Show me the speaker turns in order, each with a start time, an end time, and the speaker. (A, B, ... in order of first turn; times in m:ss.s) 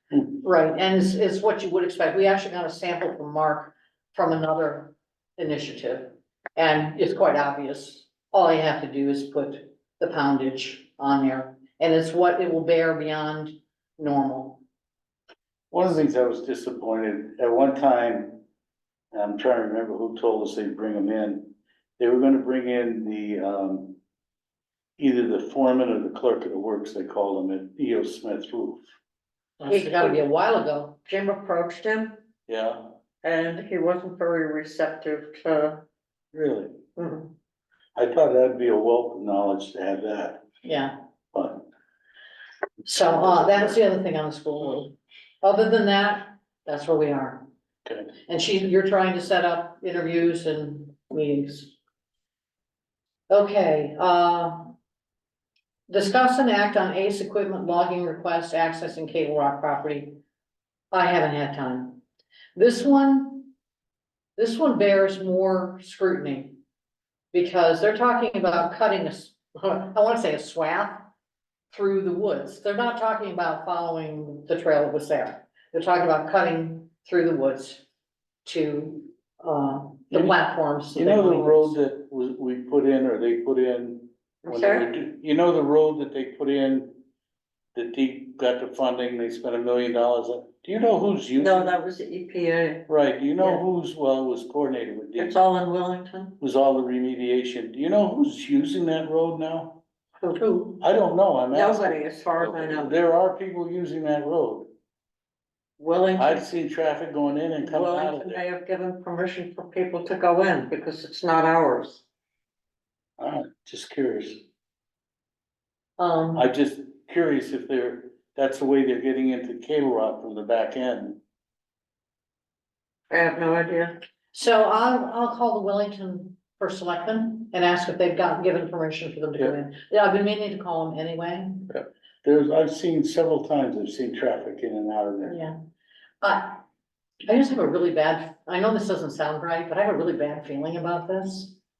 0:00.4-0:14.6 A
0:15.7-0:18.4 B
0:19.1-0:24.0 B
0:25.0-0:28.8 B
0:29.6-0:31.0 A
0:29.7-0:30.2 C
0:31.0-0:32.3 C
0:32.5-0:32.9 B
0:33.2-0:35.8 C
0:36.3-0:36.8 B
0:37.0-0:37.3 C
0:38.0-0:40.4 B
0:40.6-0:40.9 A
0:41.3-0:41.6 B
0:42.8-0:47.4 A
0:47.8-0:48.1 B
0:48.3-0:51.7 A
0:53.3-0:54.8 A
0:55.9-1:00.2 A
1:00.9-1:02.0 A
1:02.5-1:03.5 A
1:04.4-1:06.6 A
1:07.3-1:11.1 A
1:11.7-1:17.8 A
1:18.4-1:21.8 A
1:21.0-1:27.0 B
1:24.4-1:24.9 C
1:27.7-1:31.7 B
1:31.4-1:32.9 C
1:32.9-1:35.4 B
1:35.2-1:36.3 C
1:36.4-1:39.8 B
1:40.2-1:40.5 C
1:40.4-1:40.8 A
1:40.8-1:42.0 B
1:41.5-1:42.9 C
1:42.5-1:44.7 B
1:45.8-1:46.5 C
1:46.2-1:48.4 B
1:47.6-1:52.0 C
1:53.2-1:54.4 B
1:56.0-1:56.5 A
1:56.4-2:01.2 B
2:03.1-2:04.0 C
2:04.3-2:11.7 A
2:11.7-2:15.4 B
2:15.3-2:15.5 A
2:16.2-2:16.6 A
2:17.2-2:21.6 A